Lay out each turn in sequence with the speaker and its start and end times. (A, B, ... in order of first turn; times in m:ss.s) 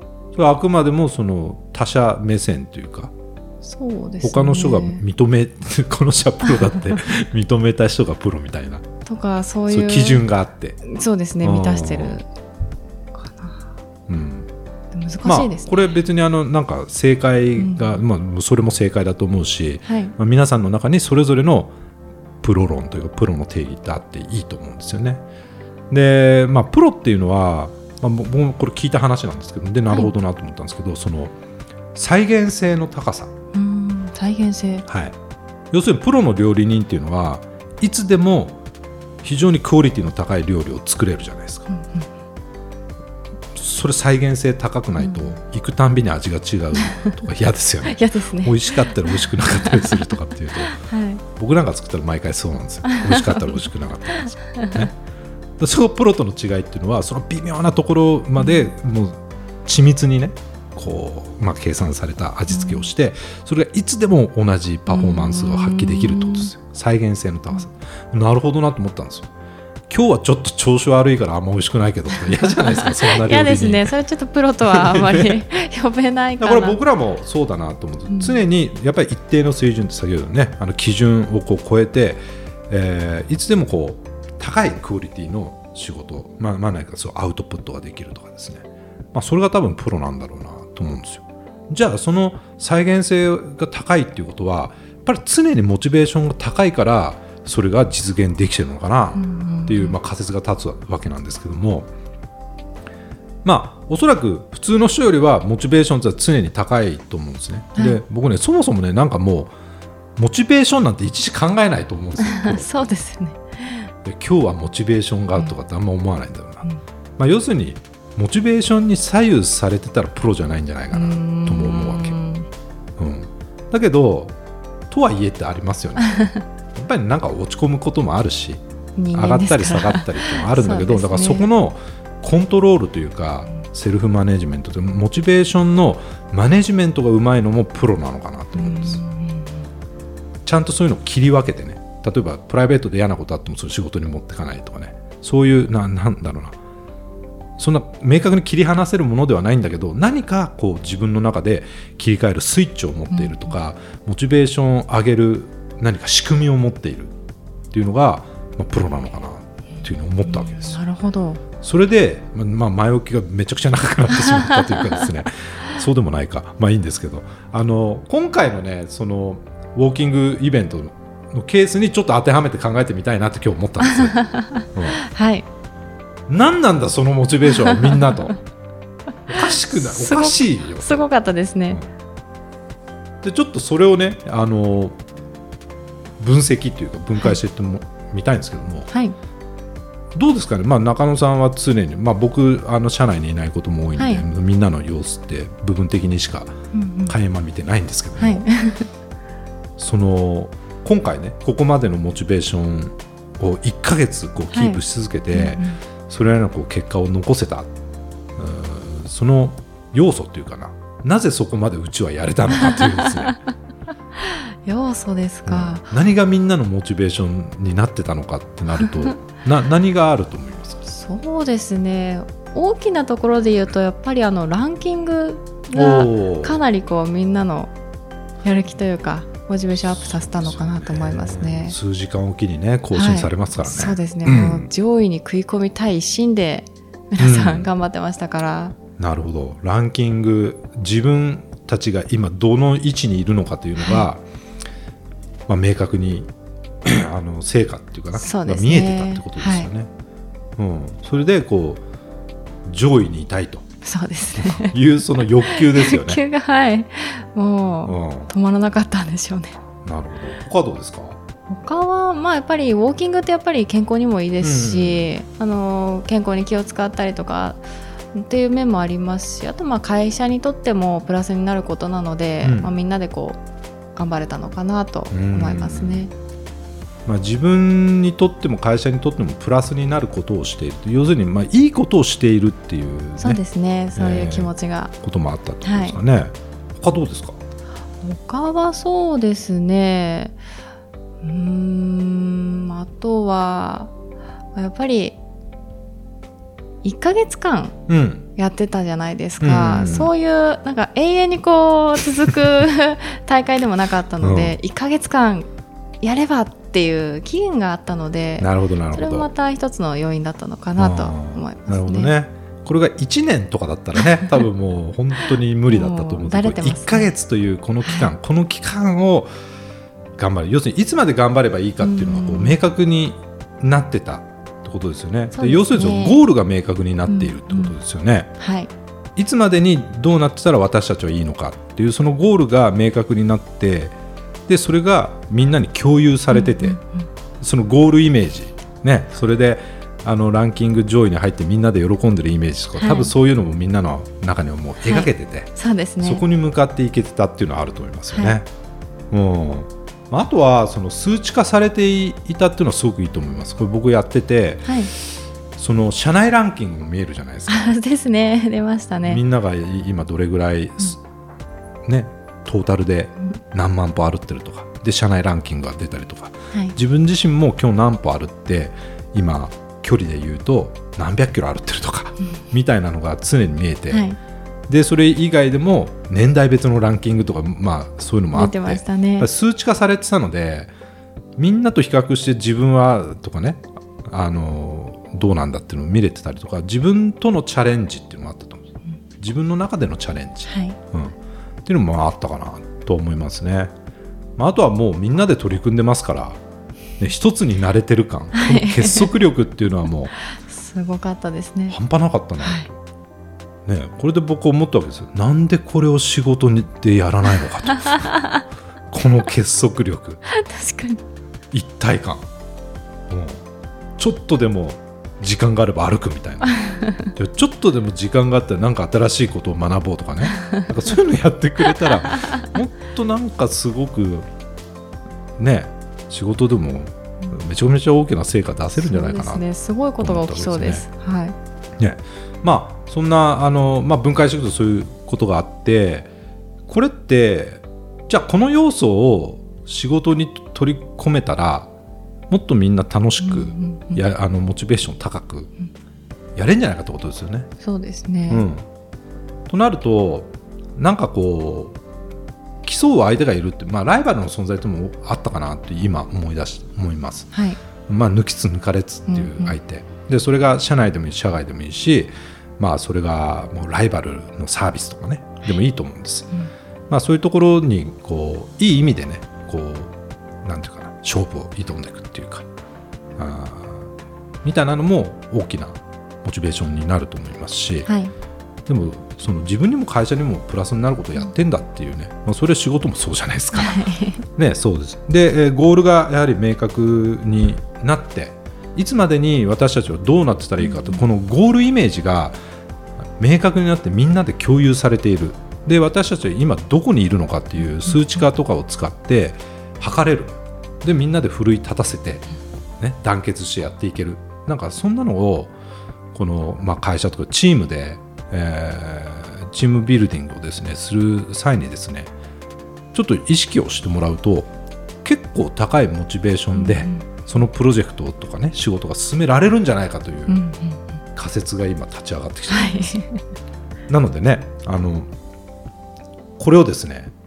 0:00.4-0:03.1 A
0:03.6-0:05.0 B
0:04.2-0:08.8 A
0:09.1-0:10.2 B
0:09.7-0:10.8 A
0:10.8-0:12.3 B
0:11.4-0:12.2 A
0:13.1-0:13.6 B
0:14.1-0:14.5 A
0:14.9-0:16.0 B
0:15.2-0:21.7 A
0:17.6-0:18.0 B
0:19.9-0:20.1 B
0:22.4-0:25.2 A
0:25.9-0:31.4 A
0:32.0-0:33.3 A
0:33.5-0:34.9 B
0:34.9-0:35.2 A
0:35.7-0:38.6 A
0:39.2-0:41.7 A
0:41.7-0:42.1 B
0:43.5-0:50.8 A
0:45.0-0:45.4 B
0:47.9-0:50.1 B
0:50.6-0:51.2 B
0:51.4-0:54.9 A
0:52.9-0:53.6 B
0:54.3-0:54.9 B
0:55.6-1:09.3 A
0:58.4-0:58.6 B
1:02.5-1:02.9 B
1:04.9-1:06.5 B
1:09.9-1:14.0 A
1:12.2-1:16.8 B
1:14.7-1:15.4 A
1:16.4-1:41.9 A
1:18.1-1:18.4 B
1:39.2-1:40.0 B
1:43.4-1:49.5 A
1:50.2-1:52.7 A
1:52.2-1:53.9 B
1:54.0-1:56.7 A
1:57.2-2:02.2 A
2:00.9-2:02.5 B
2:03.0-2:04.4 A
2:04.9-2:08.6 A
2:09.0-2:11.5 B
2:09.1-2:19.0 A
2:18.5-2:19.7 B
2:20.4-2:26.6 A
2:27.6-2:37.1 A
2:33.1-2:33.5 B
2:37.7-2:40.8 A
2:40.2-2:41.4 B
2:41.6-2:55.0 A
2:53.8-2:55.5 B
2:56.3-2:58.4 A
2:59.3-3:01.0 A
2:59.4-3:01.8 B
3:03.2-3:05.0 A
3:06.2-3:08.9 A
3:08.9-3:09.2 B
3:10.2-3:18.4 A
3:14.0-3:14.2 B
3:16.7-3:17.2 B
3:18.2-3:18.9 B
3:19.8-3:27.7 A
3:24.5-3:24.8 B
3:25.3-3:25.8 B
3:28.4-3:33.4 A
3:32.6-3:33.3 B
3:34.2-3:35.9 B
3:35.5-3:40.9 A
3:40.9-3:47.7 B
3:45.7-3:46.6 A
3:48.4-3:51.8 B
3:50.0-3:54.7 A
3:52.9-3:58.8 B
3:57.2-3:57.7 A
3:59.0-4:04.2 A
4:03.8-4:04.1 B
4:05.5-4:06.3 A
4:06.8-4:09.9 A
4:08.2-4:09.7 B
4:10.6-4:11.8 A
4:12.6-4:13.7 A
4:13.8-4:14.8 B
4:14.4-4:16.2 A
4:15.5-4:19.6 B
4:17.9-4:18.3 A
4:19.8-4:21.2 A
4:21.5-4:33.4 B
4:24.4-4:25.1 A
4:32.4-4:32.7 A
4:34.0-4:36.1 B
4:35.1-4:36.0 A
4:37.1-4:43.4 A
4:43.2-4:44.9 B
4:44.0-4:44.5 A
4:45.0-4:47.4 A
4:45.6-4:46.0 B
4:48.0-4:50.4 B
4:51.2-4:53.9 B
4:54.6-4:55.2 B
4:56.8-4:57.8 B
4:57.9-4:58.2 A
4:58.4-5:05.5 B
4:59.4-5:00.1 A
5:04.2-5:04.6 A
5:06.0-5:12.1 B
5:08.4-5:09.3 A
5:10.8-5:19.3 A
5:15.7-5:17.1 B
5:17.8-5:18.1 B
5:20.2-5:28.3 A
5:21.8-5:22.6 B
5:25.3-5:26.2 B
5:27.1-5:27.7 B
5:28.4-5:28.7 B
5:29.2-5:34.0 A
5:34.5-5:36.8 A
5:36.3-5:37.1 B
5:37.4-5:48.5 A
5:42.8-5:43.1 B
5:44.8-5:46.2 B
5:48.1-5:48.4 B
5:49.1-5:57.8 A
5:54.7-5:54.9 B
5:57.5-5:59.2 B
5:59.0-6:01.0 A
6:01.9-6:14.0 A
6:13.9-6:14.2 B
6:14.7-6:20.7 A
6:18.3-6:19.3 B
6:21.4-6:33.7 A
6:30.5-6:30.8 B
6:34.4-6:36.4 A
6:37.0-6:40.2 A
6:38.3-6:39.1 B
6:40.3-6:41.8 B
6:41.7-6:42.7 A
6:42.4-6:42.7 B
6:43.7-6:48.2 A
6:47.8-6:48.4 B
6:48.9-6:50.2 A
6:50.3-6:51.0 B
6:51.5-6:52.3 A
6:53.1-6:53.4 A
6:54.0-7:04.3 A
6:56.6-6:57.1 B
7:00.3-7:00.6 B
7:05.4-7:09.4 A
7:08.8-7:11.4 B
7:10.0-7:10.9 A
7:11.8-7:16.1 A
7:16.7-7:21.7 A
7:22.3-7:25.5 A
7:23.2-7:24.0 B
7:26.4-7:27.5 A
7:27.6-7:28.4 B
7:28.3-7:28.6 A
7:29.5-7:31.8 A
7:32.6-7:37.3 A
7:37.3-7:37.6 B
7:37.9-7:46.3 A
7:39.1-7:39.6 B
7:46.9-7:49.9 A
7:50.4-7:52.4 A
7:53.2-7:53.9 A
7:54.4-7:57.9 A
7:57.9-7:58.1 B
7:58.7-8:12.4 A
8:03.6-8:04.2 B
8:10.6-8:11.0 B
8:13.2-8:22.3 A
8:22.8-8:25.5 A
8:26.1-8:32.1 A
8:32.9-8:34.5 A
8:35.0-8:40.4 A
8:36.5-8:37.1 B
8:40.3-8:41.0 B
8:41.1-8:43.0 A
8:42.5-8:43.2 B
8:43.9-8:45.1 A
8:46.4-8:47.1 A